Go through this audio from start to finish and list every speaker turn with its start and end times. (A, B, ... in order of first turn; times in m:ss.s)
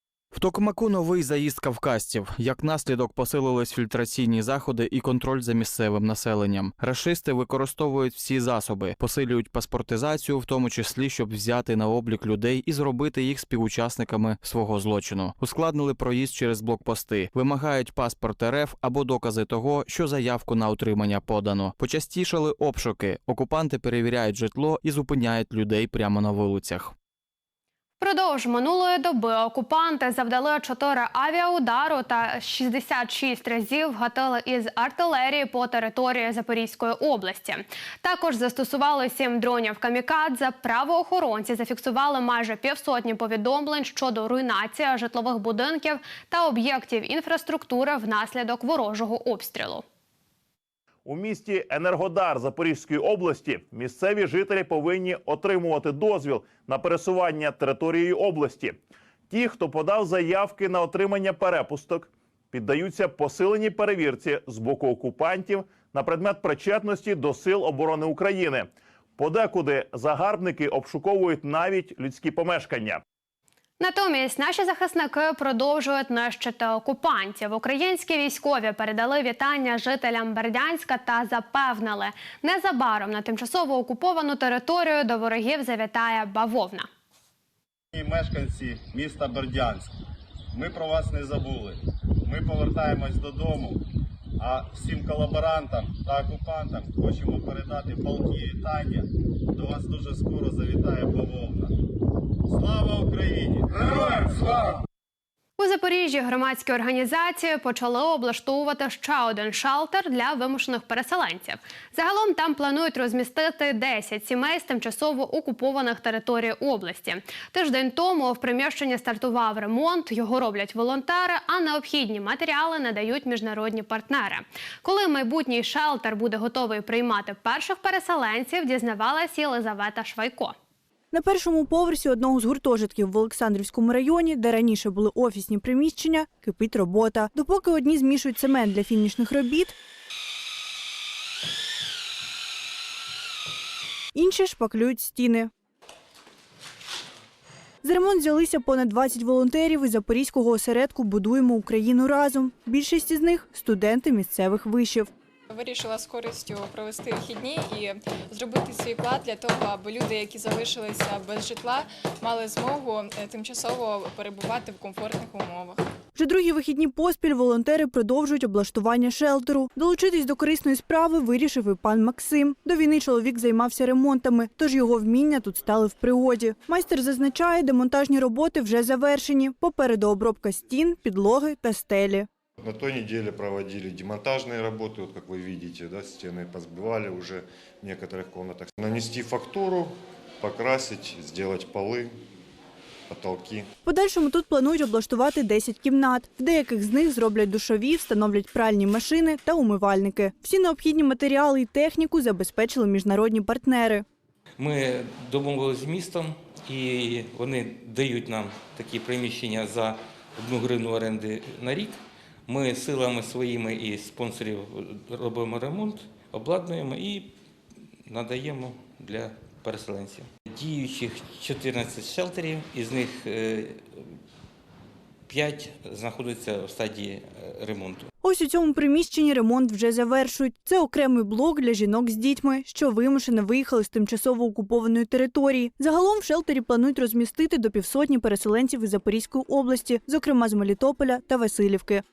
0:00.3-0:26.9 A
0:28.0-0:49.8 B
0:51.0-0:58.8 C
0:59.3-1:13.0 C
1:13.8-1:26.9 B
1:27.9-1:29.9 D
1:30.5-1:33.8 D
1:34.4-1:41.7 D
1:42.5-1:44.7 D
1:45.6-2:10.5 B
2:11.1-2:19.7 E
2:24.1-2:25.5 E
2:27.8-2:35.1 E
2:35.5-2:45.8 F
2:46.1-3:02.3 E
3:02.6-3:12.1 G
3:13.1-3:13.7 G
3:13.8-3:24.0 E
3:24.6-3:37.3 H
3:38.1-3:43.8 H
3:45.3-3:48.1 H
3:48.2-4:02.0 E